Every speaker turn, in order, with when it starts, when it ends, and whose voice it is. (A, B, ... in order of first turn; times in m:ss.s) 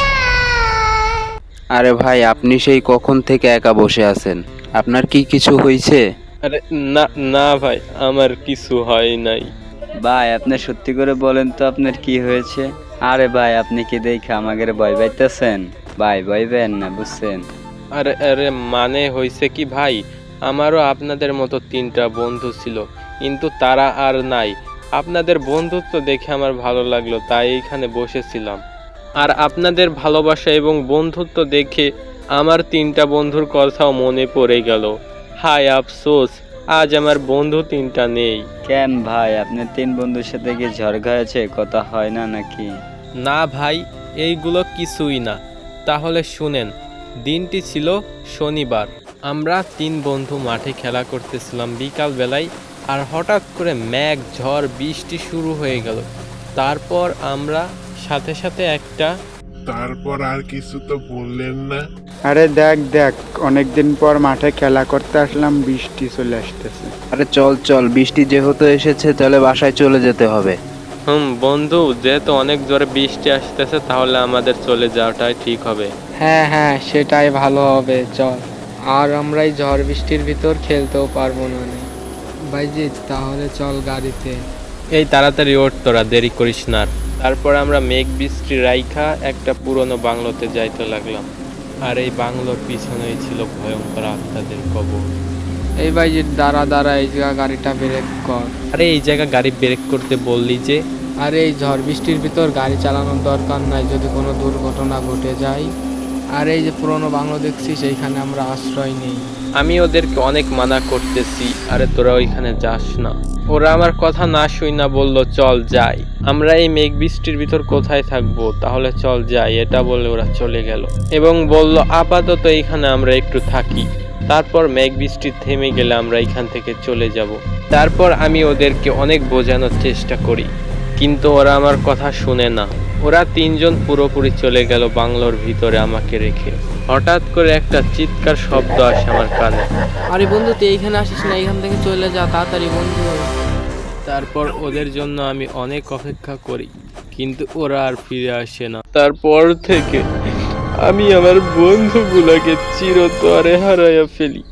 0:01.8-0:06.0 A
0:06.4-0:09.4 B
0:10.0-0:17.4 C
0:17.9-0:28.6 B
0:29.2-0:38.4 B
0:38.7-0:42.7 C
0:43.2-0:46.7 B
0:47.2-0:56.0 B
0:56.6-0:59.1 B
0:59.7-1:01.8 D
1:02.3-1:06.9 E
1:07.1-1:10.6 A
1:11.1-1:15.9 B
1:16.2-1:18.4 F
1:19.0-1:21.8 F
1:22.5-1:24.3 F
1:24.9-1:31.3 B
1:31.8-1:35.0 B
1:35.8-1:38.5 F
1:38.7-1:40.8 B
1:41.2-1:45.7 F
1:46.4-1:49.2 F
1:49.6-2:23.2 B
2:24.0-2:30.0 B
2:30.8-2:34.4 B